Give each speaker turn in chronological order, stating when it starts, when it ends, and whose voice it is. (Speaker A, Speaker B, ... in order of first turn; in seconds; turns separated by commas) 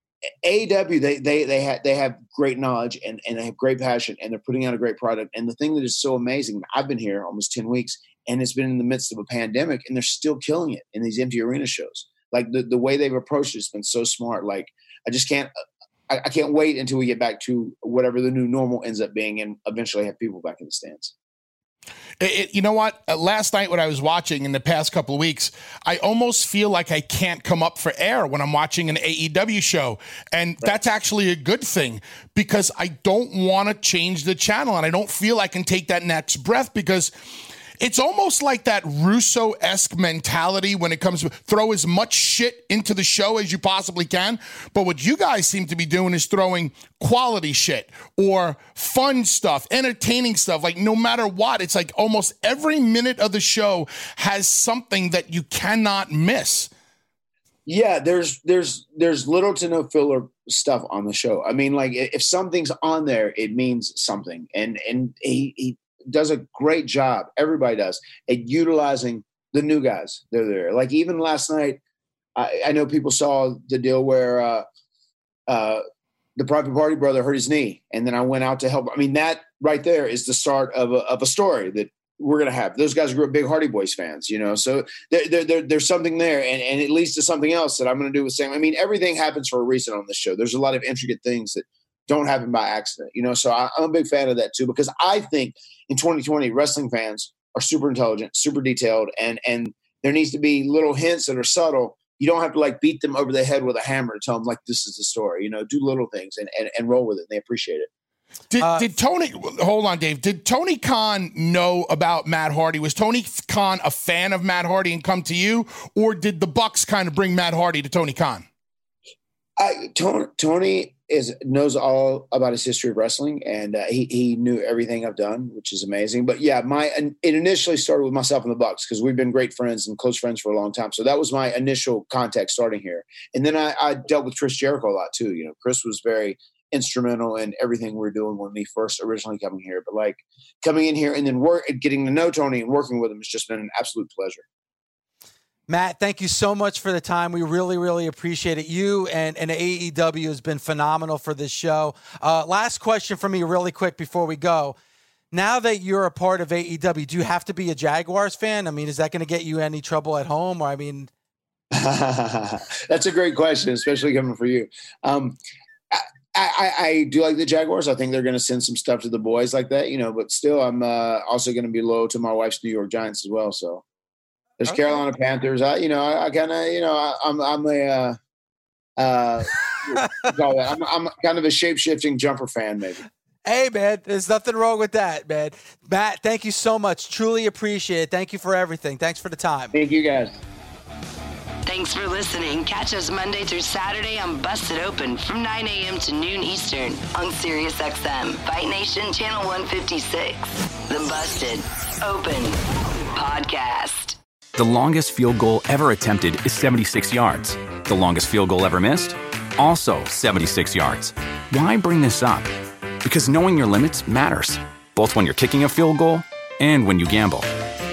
Speaker A: 0.4-15.5, Speaker A: 16.1-21.1, Speaker B: 22.2-37.1, Speaker B: 37.8-56.7, Speaker A: 57.6-71.8, Speaker A: 72.3-74.6, Speaker A: 75.5-75.8, Speaker A: 76.3-107.9, Speaker B: 108.5-118.5, Speaker C: 108.6-108.9, Speaker A: 119.6-144.4, Speaker C: 145.7-154.8, Speaker C: 155.3-161.1, Speaker A: 161.7-165.4, Speaker A: 165.9-173.8, Speaker A: 174.6-178.2, Speaker A: 179.0-183.0, Speaker C: 183.4-189.7, Speaker A: 189.7-190.4, Speaker D: 191.6-204.2, Speaker E: 204.5-212.5, Speaker E: 213.0-217.5